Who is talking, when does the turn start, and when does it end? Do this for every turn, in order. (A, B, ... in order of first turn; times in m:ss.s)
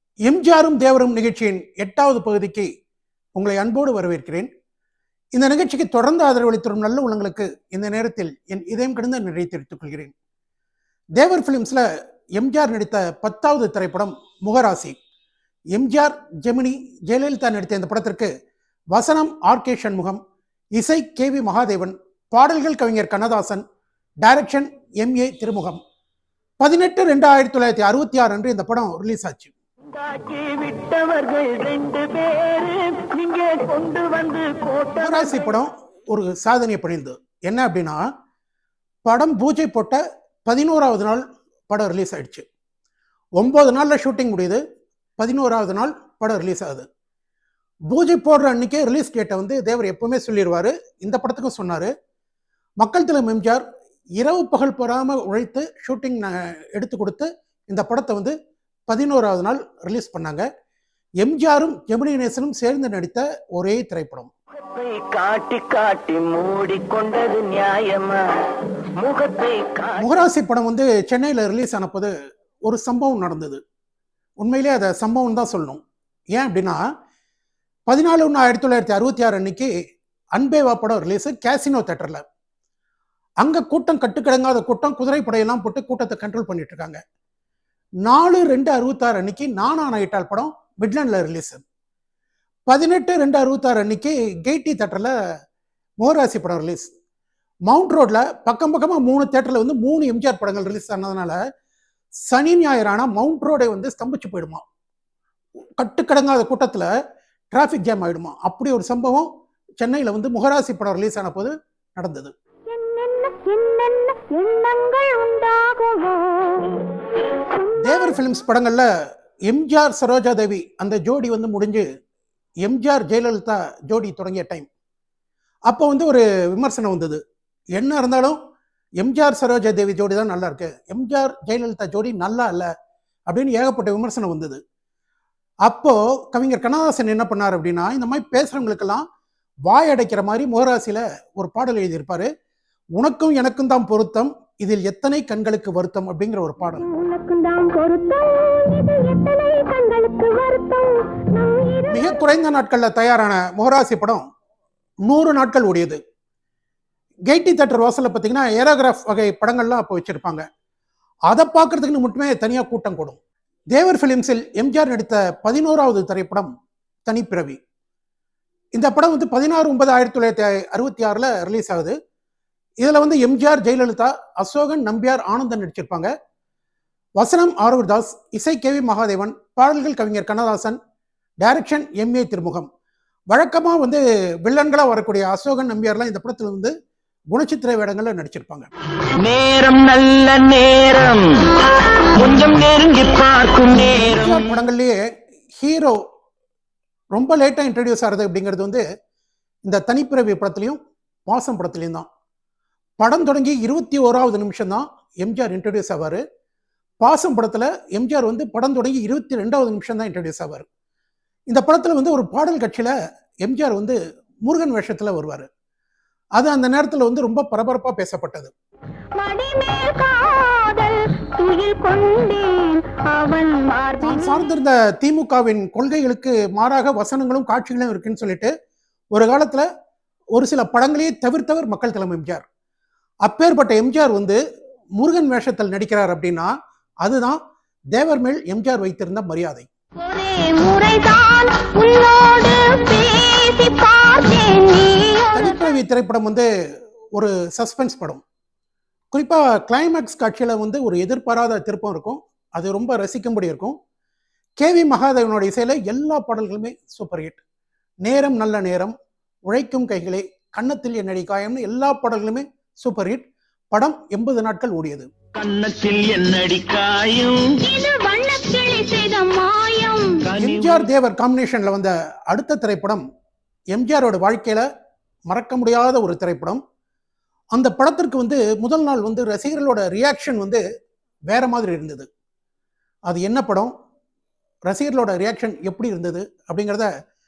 0:00.3-0:02.7 A
0:03.4-0:04.5 A
0:05.4-0:10.1 A
0:11.2-0:11.8 A
0:12.4-0:15.0 A
0:15.7-0:18.3 A
0:18.9-0:20.2 A
0:20.8-0:23.6 A
0:24.2-0:25.8 A
0:26.6-0:29.5 A
0:29.9-0:35.6 B
0:35.0-0:38.0 A
0:39.0-0:42.5 A
0:43.4-0:44.6 A
0:45.2-0:46.8 A
0:47.9-0:51.9 A
0:52.8-0:53.6 A
0:54.2-0:58.3 A
0:58.9-1:00.4 A
1:01.2-1:04.3 A
1:04.6-1:08.2 B
1:09.0-1:10.2 B
1:10.0-1:12.1 A
1:12.7-1:13.6 A
1:14.4-1:15.8 A
1:16.4-1:16.8 A
1:17.9-1:19.7 A
1:20.4-1:22.2 A
1:23.4-1:27.0 A
1:28.1-1:31.6 A
1:32.7-1:35.1 A
1:36.0-1:36.9 A
1:37.7-1:41.4 A
1:42.3-1:44.6 A
1:45.8-1:46.9 A
1:47.5-1:49.3 A
1:49.8-1:52.3 A
1:52.7-1:56.9 C
1:57.5-1:58.2 C
1:57.8-1:58.8 A
1:59.5-2:01.9 A
2:02.6-2:04.7 A
2:05.7-2:07.2 A
2:07.8-2:08.4 A
2:09.0-2:12.7 A
2:13.3-2:14.6 A
2:15.7-2:19.0 A
2:19.7-2:22.3 A
2:23.0-2:26.8 A
2:26.7-2:32.2 C
2:31.9-2:34.2 A
2:35.1-2:36.0 A
2:37.3-2:40.4 A
2:41.3-2:43.2 A
2:43.7-2:46.5 A
2:47.1-2:47.6 A
2:48.7-2:51.9 A
2:52.8-2:56.1 A
2:57.2-3:00.8 A
3:01.4-3:02.7 A
3:03.3-3:06.7 A
3:07.3-3:08.7 A
3:09.2-3:11.5 B
3:12.2-3:14.6 B
3:13.9-3:15.0 A
3:15.6-3:16.0 A
3:17.1-3:18.8 A
3:19.7-3:22.1 A
3:23.0-3:26.2 A
3:27.0-3:30.7 A
3:31.5-3:32.9 A
3:33.4-3:35.5 A
3:36.4-3:38.5 A
3:39.2-3:44.4 C
3:44.0-3:48.5 A
3:49.1-3:49.6 A
3:50.4-3:52.4 A
3:53.2-3:54.4 A
3:55.0-3:57.4 A
3:57.9-3:59.7 A
4:00.0-4:05.7 C
4:05.3-4:06.5 A
4:07.2-4:08.2 A
4:09.1-4:13.8 A
4:14.6-4:17.4 A
4:18.0-4:18.9 A
4:19.5-4:25.1 A
4:25.3-4:27.6 B
4:27.6-4:30.2 C
4:30.2-4:30.9 B
4:30.4-4:33.0 A
4:33.7-4:34.7 A
4:35.3-4:36.6 A
4:37.5-4:40.6 A
4:41.3-4:42.1 A
4:43.1-4:43.7 A
4:44.7-4:46.9 A